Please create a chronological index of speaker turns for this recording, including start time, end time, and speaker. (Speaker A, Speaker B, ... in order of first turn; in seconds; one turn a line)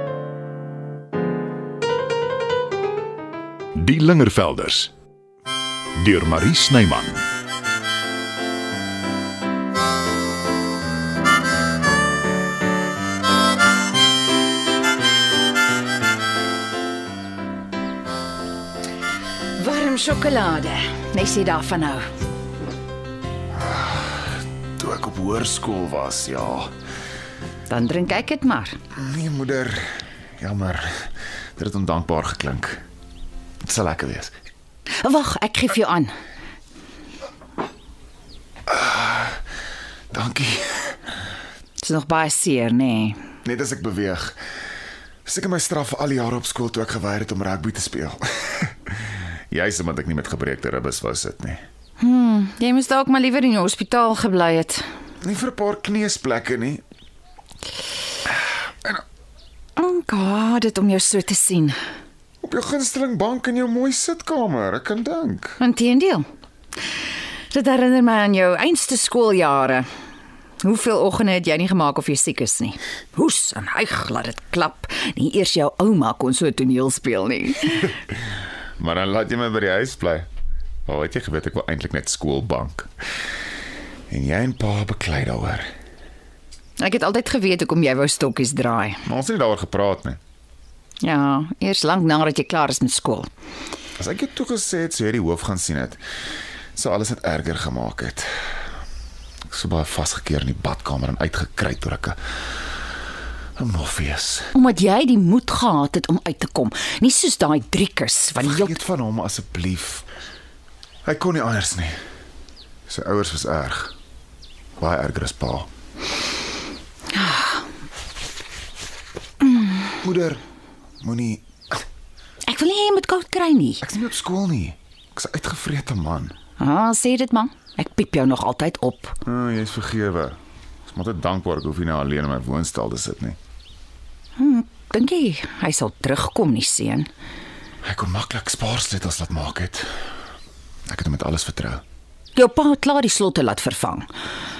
Speaker A: 3.8-4.9
Speaker A: 6.0-7.2
Speaker B: 19.6-22.1
Speaker C: 23.6-26.7
Speaker B: 27.7-28.8
Speaker C: 28.9-32.8
Speaker C: 33.6-34.3
Speaker B: 35.0-36.1
Speaker C: 38.7-39.4
Speaker C: 40.1-41.0
Speaker B: 41.8-43.2
Speaker C: 43.4-44.4
Speaker C: 45.2-49.0
Speaker C: 49.5-51.6
Speaker B: 52.0-54.9
Speaker C: 55.2-56.8
Speaker B: 59.8-61.8
Speaker C: 62.4-65.6
Speaker B: 65.6-66.3
Speaker B: 67.5-69.9
Speaker B: 70.6-78.0
Speaker C: 78.8-80.3
Speaker C: 80.9-82.9
Speaker C: 84.1-85.7
Speaker B: 86.8-89.0
Speaker C: 89.0-90.2
Speaker B: 91.0-93.3
Speaker C: 94.0-96.0
Speaker C: 96.8-98.3
Speaker C: 99.5-102.2
Speaker C: 103.6-104.5
Speaker B: 104.5-108.8
Speaker C: 108.4-110.1
Speaker C: 111.0-112.0
Speaker C: 112.9-113.9
Speaker C: 114.8-115.7
Speaker B: 117.1-117.6
Speaker C: 120.0-120.4
Speaker C: 121.0-121.5
Speaker B: 122.5-123.8
Speaker C: 123.8-126.3
Speaker B: 126.6-129.2
Speaker C: 129.2-133.4
Speaker B: 134.4-137.1
Speaker C: 137.8-139.9
Speaker C: 140.9-141.8
Speaker B: 142.4-144.1